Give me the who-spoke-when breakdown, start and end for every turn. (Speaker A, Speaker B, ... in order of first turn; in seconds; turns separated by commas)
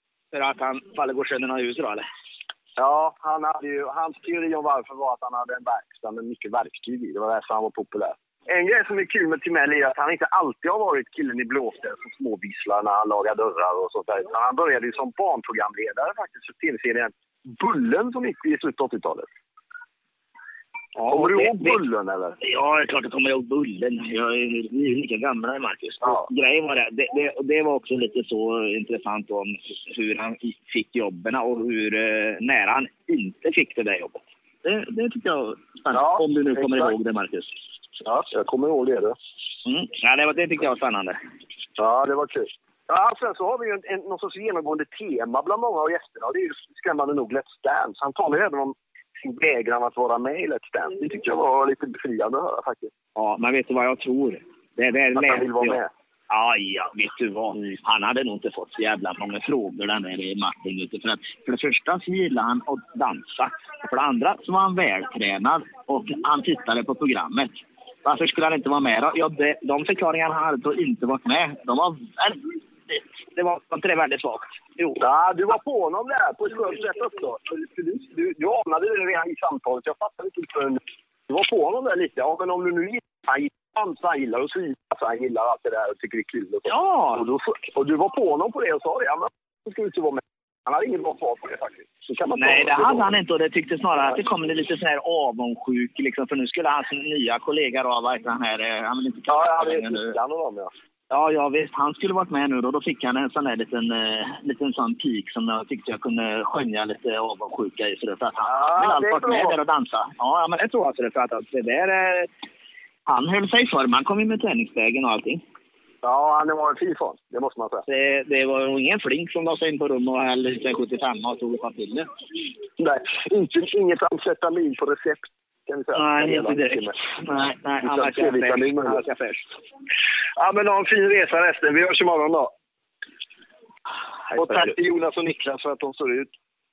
Speaker A: 0.3-2.1, Speaker B: 2.8-19.3, Speaker A: 21.0-21.8, Speaker B: 21.1-22.4, Speaker A: 22.4-37.5, Speaker B: 35.9-37.0, Speaker B: 38.0-39.2, Speaker A: 39.6-41.2, Speaker B: 41.8-52.9, Speaker A: 53.2-75.0, Speaker B: 55.1-55.9, Speaker B: 75.0-93.1, Speaker A: 86.7-87.3, Speaker A: 92.4-100.2, Speaker B: 99.3-100.7, Speaker A: 101.1-112.3, Speaker B: 108.4-109.6, Speaker A: 113.1-115.4, Speaker B: 116.0-117.8, Speaker A: 117.9-122.1, Speaker B: 122.8-127.0, Speaker A: 126.0-129.4, Speaker B: 127.8-129.0, Speaker B: 130.4-132.5, Speaker A: 134.3-134.7, Speaker B: 134.3-136.3